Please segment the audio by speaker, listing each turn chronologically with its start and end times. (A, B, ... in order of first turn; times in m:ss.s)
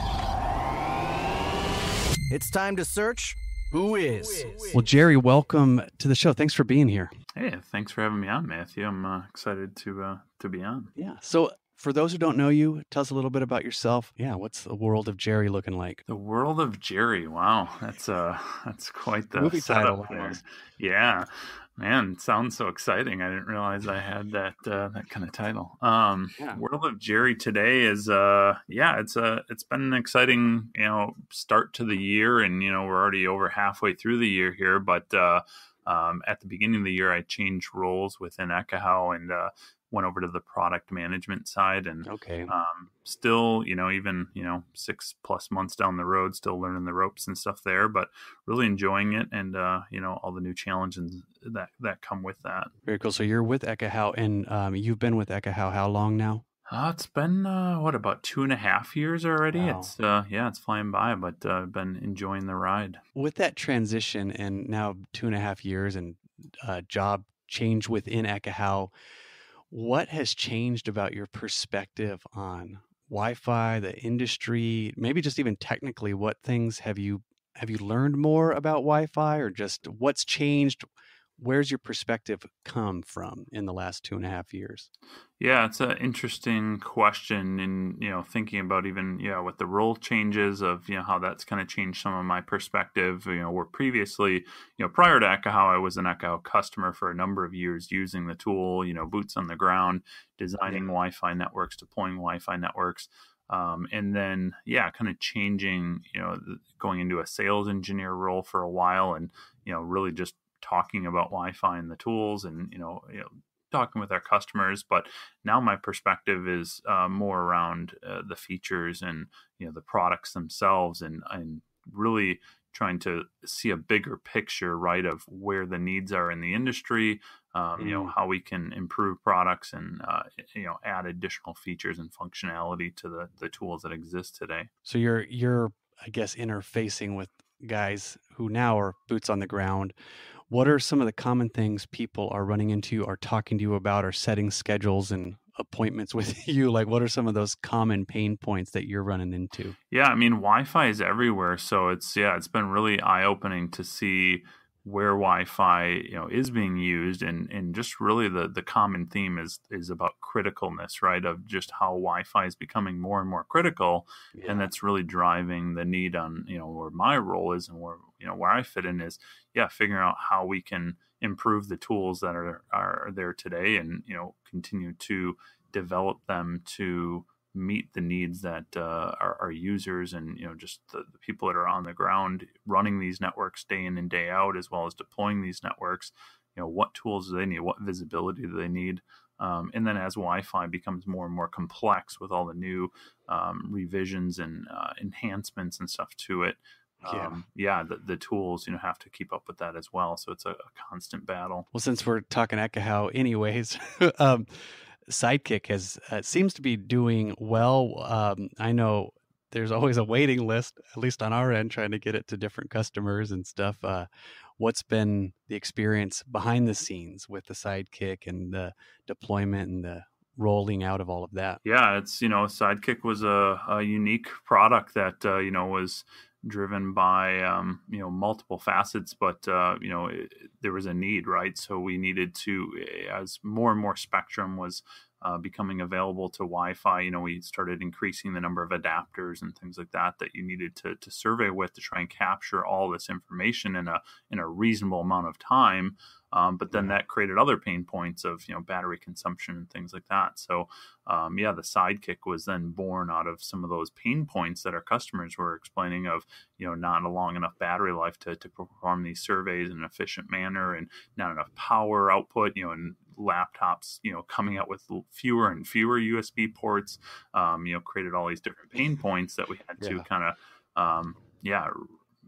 0:02.3-0:04.8 A
0:04.7-0:07.1 B
0:07.4-0:10.9 C
0:11.0-0:16.0 B
0:16.1-0:52.7 C
0:19.4-0:20.4 B
0:42.0-0:42.5 B
0:52.8-0:56.4 B
0:56.7-1:03.0 C
0:59.5-0:59.9 B
1:03.1-1:08.9 B
1:09.7-1:20.8 B
1:21.4-1:24.9 B
1:25.4-2:14.7 C
1:40.6-1:40.9 B
2:07.8-2:08.1 B
2:14.8-2:19.9 B
2:20.5-2:29.8 B
2:29.9-3:21.7 C
2:44.3-2:44.7 B
3:17.0-3:17.4 B
3:21.7-3:41.6 B
3:41.6-4:31.9 C
4:06.7-4:07.0 B
4:29.8-4:30.1 B